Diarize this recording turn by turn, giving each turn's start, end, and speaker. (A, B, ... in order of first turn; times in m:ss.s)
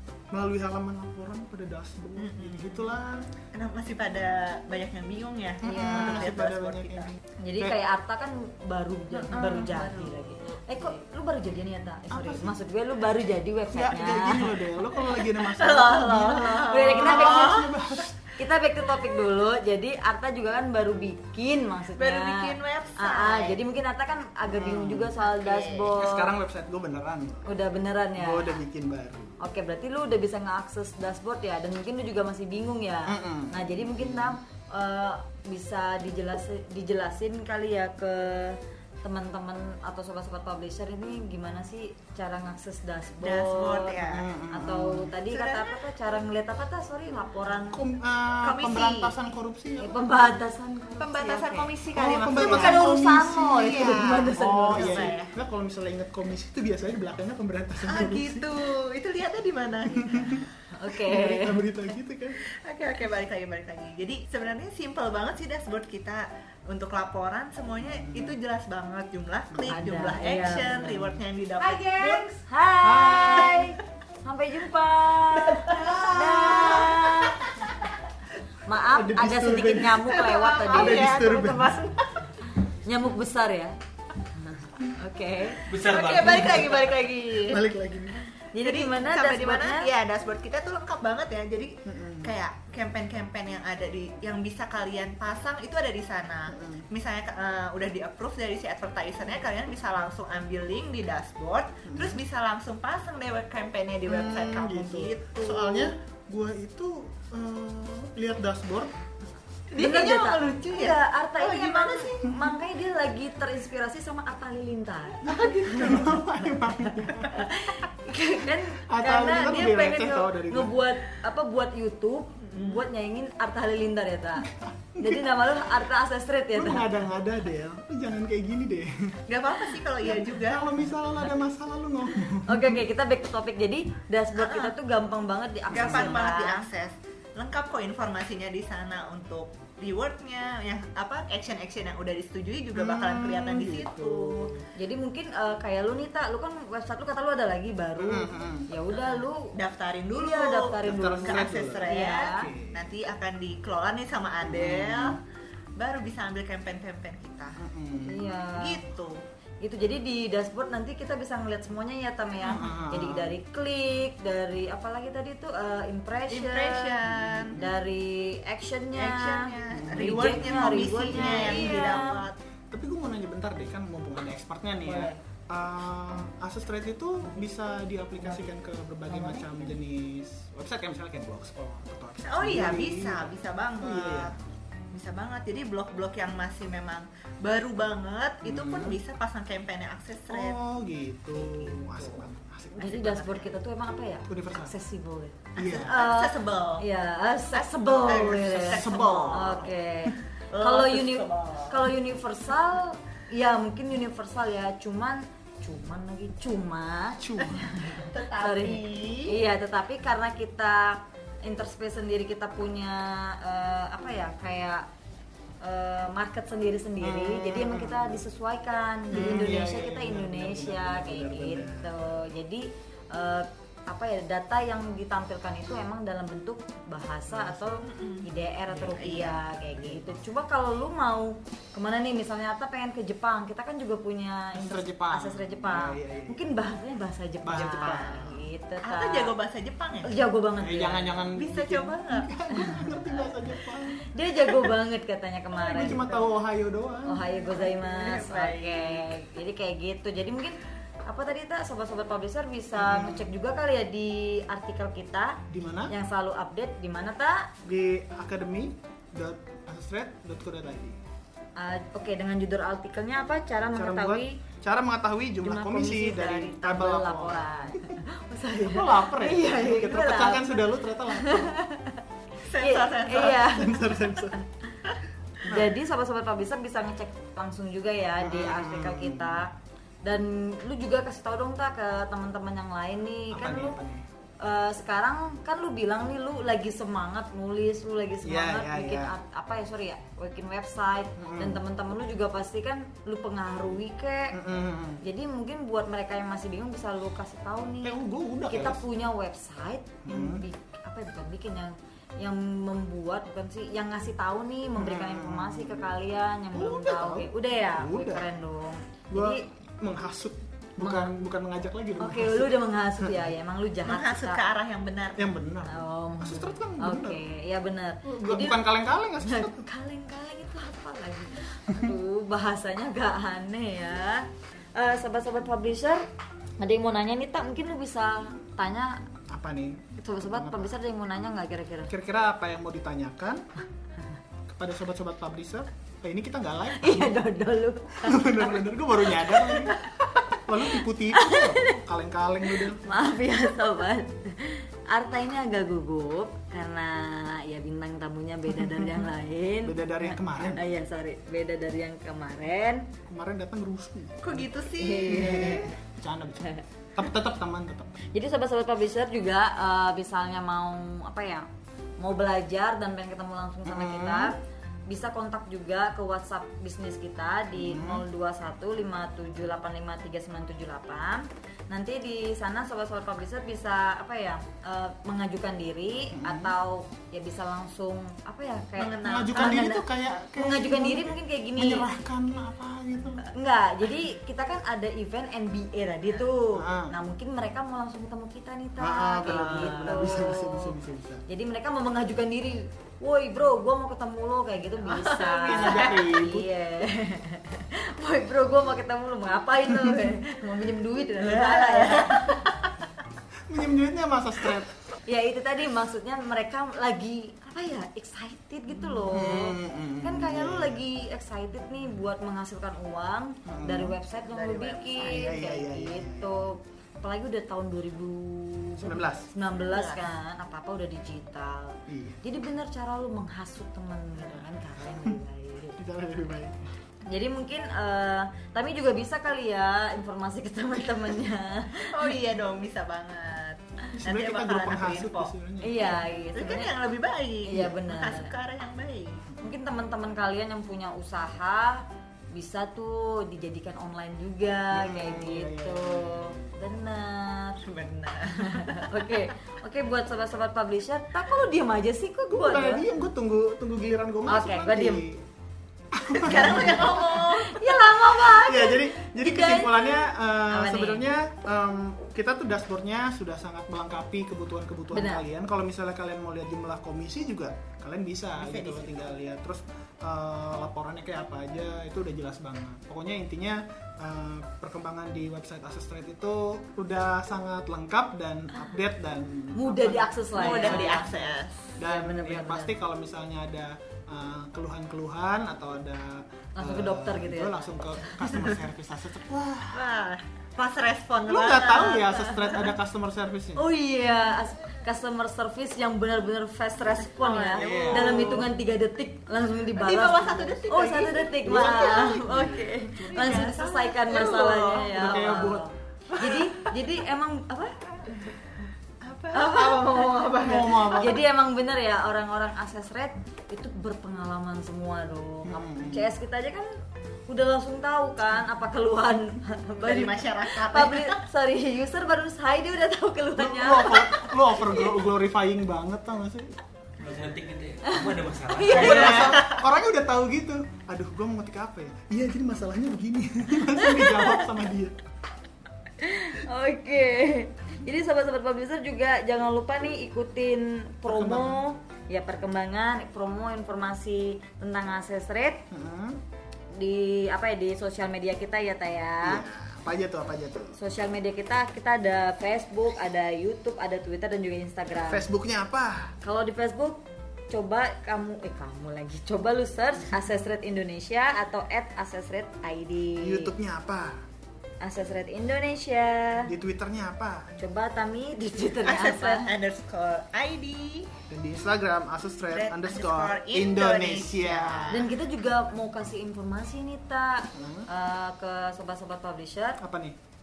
0:00.3-0:03.3 A
0:02.2-0:02.9 B
0:03.5-0:07.2 B
0:05.6-0:07.8 A
0:05.6-0:06.3 C
0:07.4-0:14.6 C
0:09.1-0:10.6 B
0:12.1-0:12.6 A
0:13.7-0:18.2 A
0:15.0-0:17.8 B
0:16.6-0:17.6 C
0:18.4-0:26.3 C
0:22.0-0:23.6 B
0:24.5-0:25.1 A
0:25.2-0:25.9 B
0:25.9-0:27.4 A
0:27.4-0:28.6 C
0:28.2-0:29.4 A
0:29.4-0:47.8 C
0:33.1-0:34.4 A
0:43.2-0:44.3 B
0:44.1-0:45.1 A
0:45.2-0:45.8 B
0:47.7-0:50.0 A
0:48.4-0:49.2 B
0:48.5-0:48.7 C
0:49.8-0:51.8 C
0:51.0-0:52.8 B
0:51.9-0:58.5 A
0:52.3-0:55.1 C
0:53.6-0:55.3 B
0:57.9-1:00.5 B
0:59.9-1:00.4 A
1:00.7-1:01.6 C
1:01.0-1:02.4 A
1:02.4-1:12.4 B
1:07.8-1:08.4 A
1:09.5-1:09.8 A
1:09.7-1:11.0 C
1:11.6-1:17.5 C
1:12.8-1:13.6 A
1:15.4-1:17.3 B
1:18.6-1:21.1 C
1:18.8-1:20.1 A
1:20.0-1:22.3 B
1:20.7-1:21.8 A
1:22.8-1:23.7 C
1:24.4-1:25.7 C
1:25.7-1:26.8 D
1:25.7-1:27.6 B
1:27.4-1:28.2 A
1:28.5-1:29.9 C
1:28.6-1:45.9 B
1:31.8-1:32.3 A
1:36.5-1:36.9 A
1:41.9-1:42.2 A
1:44.1-1:48.9 A
1:49.7-1:52.3 B
1:49.8-2:06.9 C
1:55.2-1:57.4 A
1:58.8-2:00.7 A
2:02.4-2:02.9 B
2:04.5-2:05.3 A
2:06.5-2:09.2 A
2:09.3-2:10.9 B
2:10.0-2:12.8 A
2:12.5-2:16.7 C
2:14.4-2:14.8 B
2:15.7-2:16.2 A
2:15.7-2:24.5 B
2:22.8-2:24.6 A
2:24.8-2:29.5 C
2:28.0-2:28.7 A
2:28.9-2:35.2 B
2:30.2-2:32.5 C
2:30.8-2:32.9 A
2:34.4-2:35.2 A
2:35.8-2:37.6 B
2:37.6-2:38.4 A
2:38.0-2:38.8 C
2:38.6-2:39.2 B
2:39.6-2:46.9 C
2:42.4-2:43.4 A
2:46.3-2:47.6 B
2:47.0-2:47.8 A
2:47.6-2:52.2 C
2:49.0-2:52.4 B
2:49.7-3:04.4 A
2:54.8-2:55.2 C
2:59.1-2:59.5 C
3:02.3-3:04.3 B
3:04.9-3:10.6 B
3:08.4-3:09.0 A
3:10.3-3:13.0 A
3:11.3-3:12.3 B
3:12.8-3:34.9 C
3:12.8-3:13.5 B
3:14.3-3:14.7 A
3:15.6-3:16.0 A
3:15.6-3:16.8 B
3:17.5-3:19.7 B
3:18.1-3:19.7 A
3:20.5-3:21.9 B
3:27.2-3:27.8 A
3:27.9-3:29.4 B
3:35.6-3:59.3 C
3:37.0-3:38.2 A
3:39.1-3:42.0 A
3:47.3-3:47.8 A
3:47.8-3:48.2 B
3:48.7-3:50.2 A
3:49.0-3:49.4 B
3:54.6-3:56.4 A
3:57.4-3:58.4 A
3:58.8-4:00.1 B
4:00.0-4:01.3 C
4:00.6-4:04.7 A
4:01.4-4:02.3 B
4:02.6-4:03.1 C
4:04.0-4:06.2 C
4:05.5-4:07.3 A
4:07.1-4:17.5 C
4:07.4-4:09.1 B
4:12.8-4:13.3 A
4:15.5-4:15.9 A
4:17.6-4:21.0 A
4:21.6-4:24.4 C
4:23.6-4:27.9 A
4:25.4-4:32.0 C
4:28.6-4:31.6 A
4:32.4-4:33.4 B
4:32.6-4:34.5 C
4:33.2-4:34.4 A
4:35.4-4:39.5 C
4:35.4-4:35.7 A
4:38.2-4:39.4 A
4:40.0-4:43.8 C
4:43.3-4:44.0 A
4:44.4-4:54.4 C
4:48.2-4:49.1 A
4:51.2-4:51.6 A
4:54.3-4:55.0 A
4:55.0-4:58.0 C
4:57.8-4:58.8 A
4:58.5-5:09.5 C
5:00.0-5:00.4 A
5:04.8-5:06.0 A
5:06.5-5:08.3 A
5:09.1-5:13.2 A
5:10.8-5:11.1 C
5:12.0-5:14.4 C
5:13.8-5:15.3 B
5:15.2-5:17.2 A
5:15.7-5:18.6 C
5:18.0-5:19.6 A
5:19.2-5:26.0 C
5:26.6-5:29.0 C
5:29.3-5:30.8 A
5:30.0-5:31.9 C
5:31.9-5:33.4 A
5:34.5-5:37.2 A
5:36.8-5:40.1 C
5:38.0-5:39.9 A
5:40.4-5:42.8 A
5:40.7-5:41.8 C
5:42.4-5:52.9 C
5:49.6-5:50.6 A
5:53.1-5:54.4 A
5:54.2-5:55.7 B
5:54.8-5:55.7 C
5:55.0-5:58.0 A
5:58.1-6:01.4 C
6:02.0-6:04.3 C
6:03.6-6:04.3 A
6:04.9-6:19.8 C
6:07.5-6:08.0 A
6:16.1-6:16.5 A
6:18.8-6:19.6 B
6:19.0-6:23.3 A
6:20.4-6:21.9 C
6:23.3-6:30.8 C
6:26.6-6:26.9 A
6:28.8-6:31.2 A
6:29.2-6:30.0 B
6:31.3-6:42.5 C
6:34.8-6:36.0 B
6:35.1-6:36.5 A
6:41.2-6:42.7 B
6:43.5-6:44.7 A
6:45.1-7:05.8 C
6:49.1-6:50.8 A
6:53.5-6:54.0 A
6:54.3-6:55.2 B
6:55.0-6:56.4 A
6:58.8-6:59.3 A
6:59.5-7:00.1 B
7:01.9-7:02.2 A
7:05.8-7:06.7 A
7:07.1-7:12.1 C
7:11.9-7:15.3 B
7:13.9-7:16.0 A
7:15.6-7:16.7 C
7:16.4-7:19.2 B
7:17.4-7:18.3 C
7:17.5-7:17.8 A
7:19.4-7:27.6 C
7:24.7-7:26.5 A
7:27.6-7:29.2 B
7:28.5-7:32.9 C
7:32.3-7:35.2 A
7:34.3-7:35.0 C
7:35.9-7:37.1 A
7:36.1-7:38.2 B
7:37.0-7:41.1 C
7:38.2-8:01.1 A
7:44.9-7:45.2 C
7:48.4-7:49.0 B
7:59.6-8:01.1 C
8:00.4-8:01.6 B
8:01.8-8:09.8 A
8:01.8-8:02.7 C
8:06.6-8:08.1 C
8:08.2-8:08.6 B
8:09.7-8:12.1 B
8:11.3-8:13.6 A
8:12.2-8:12.6 C
8:13.6-8:27.8 C
8:17.0-8:18.5 B
8:17.6-8:18.5 A
8:19.8-8:25.5 B
8:21.4-8:23.2 A
8:25.0-8:25.6 A
8:26.1-8:26.7 B
8:29.0-8:30.9 B
8:29.3-8:36.7 C
8:30.4-8:31.2 A
8:35.4-8:36.1 A
8:37.3-8:44.1 C
8:39.8-8:41.2 B
8:43.4-8:46.5 A
8:47.0-8:49.0 D
8:47.8-8:49.4 C
8:48.7-8:55.0 A
8:48.7-8:49.6 B
8:53.8-8:54.4 C
8:56.0-9:05.6 C
9:01.0-9:01.6 A
9:05.7-9:06.2 A
9:06.8-9:09.4 C
9:09.2-9:10.8 A
9:10.8-9:15.3 C
9:15.0-9:16.1 A
9:16.2-9:23.6 C
9:23.2-9:24.2 A
9:24.8-9:26.5 C
9:26.5-9:27.5 A
9:27.6-9:29.5 C
9:28.8-9:31.1 B
9:31.3-9:35.0 A
9:32.5-9:35.1 B
9:34.9-9:39.8 C
9:37.6-9:37.9 A
9:39.8-9:40.2 A